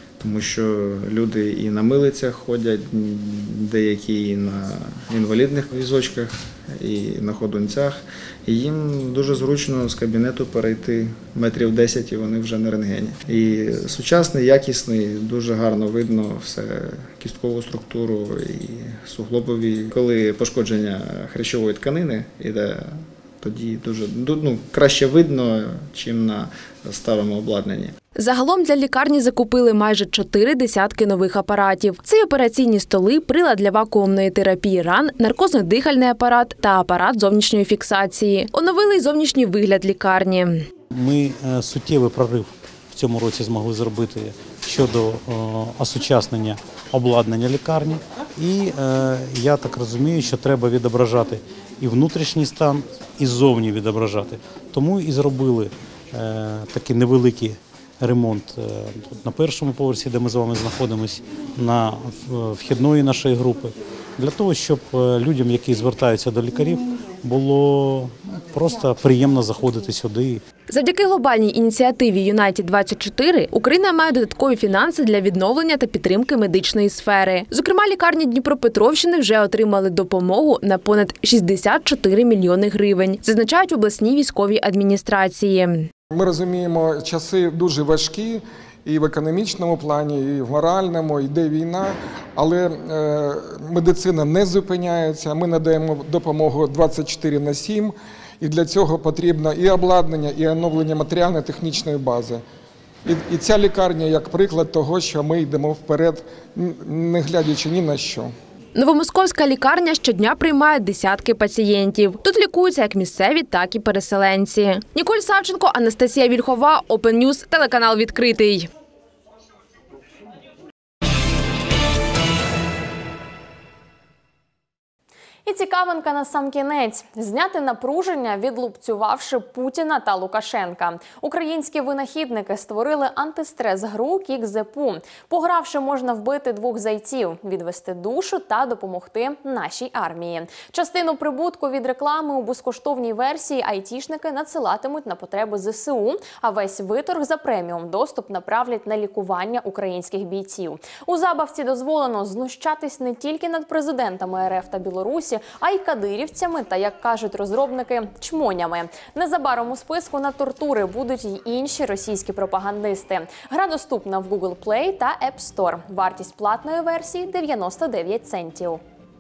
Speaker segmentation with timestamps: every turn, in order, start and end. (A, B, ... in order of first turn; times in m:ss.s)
0:00.2-0:27.9 A
0:28.2-0:40.6 B
0:40.9-1:10.4 C
1:10.7-1:25.9 B
1:26.1-1:42.4 D
1:43.1-1:48.3 D
1:48.8-1:58.7 B
2:05.5-2:48.8 E